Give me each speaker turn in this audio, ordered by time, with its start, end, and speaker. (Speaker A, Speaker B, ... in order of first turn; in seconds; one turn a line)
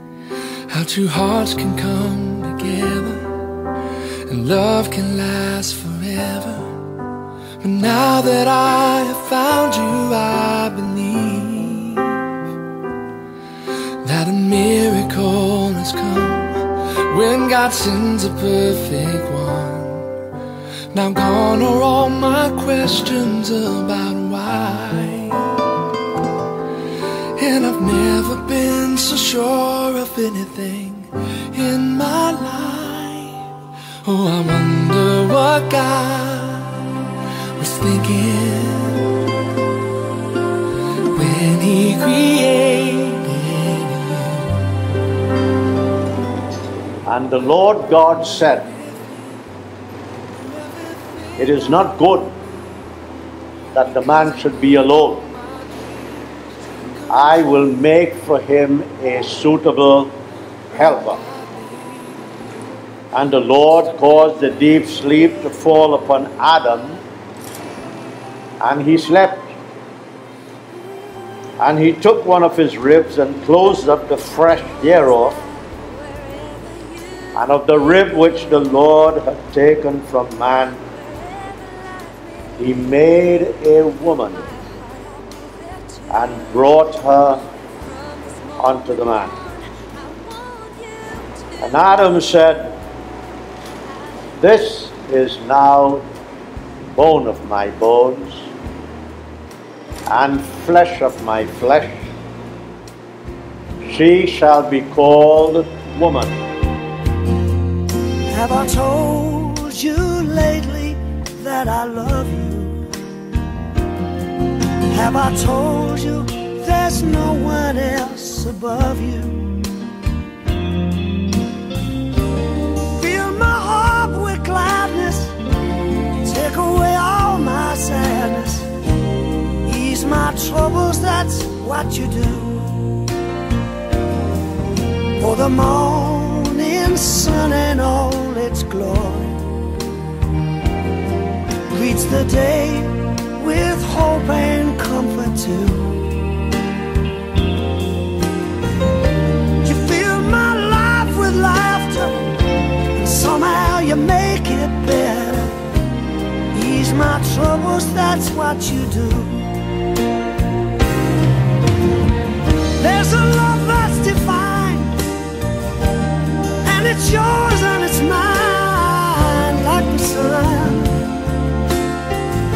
Speaker A: 0.7-3.3
Speaker A: 4.3-6.7
Speaker A: 7.6-12.3
Speaker A: 14.0-20.1
Speaker A: 20.9-25.5
Speaker A: 27.4-33.4
Speaker A: 34.0-36.8
Speaker A: 37.6-39.1
Speaker A: 41.1-44.7
Speaker B: 47.0-48.7
Speaker B: 51.4-52.4
Speaker B: 53.7-55.3
Speaker A: 56.8-57.1
Speaker B: 57.1-60.1
Speaker B: 60.7-61.2
Speaker A: 61.5-61.9
Speaker B: 63.1-67.0
Speaker B: 68.6-69.5
Speaker B: 71.6-75.4
Speaker B: 77.3-80.8
Speaker B: 82.6-84.5
Speaker B: 86.1-87.4
Speaker B: 88.6-89.5
Speaker B: 91.6-92.8
Speaker B: 94.4-96.1
Speaker B: 97.0-98.5
Speaker B: 100.1-102.0
Speaker B: 103.9-106.4
Speaker C: 108.3-112.8
Speaker C: 114.9-119.6
Speaker C: 123.0-125.4
Speaker C: 126.2-128.7
Speaker C: 129.6-132.8
Speaker C: 135.2-139.5
Speaker C: 141.7-146.1
Speaker C: 149.6-152.2
Speaker C: 152.9-155.6
Speaker C: 156.5-159.6
Speaker C: 162.8-165.0
Speaker C: 166.6-171.0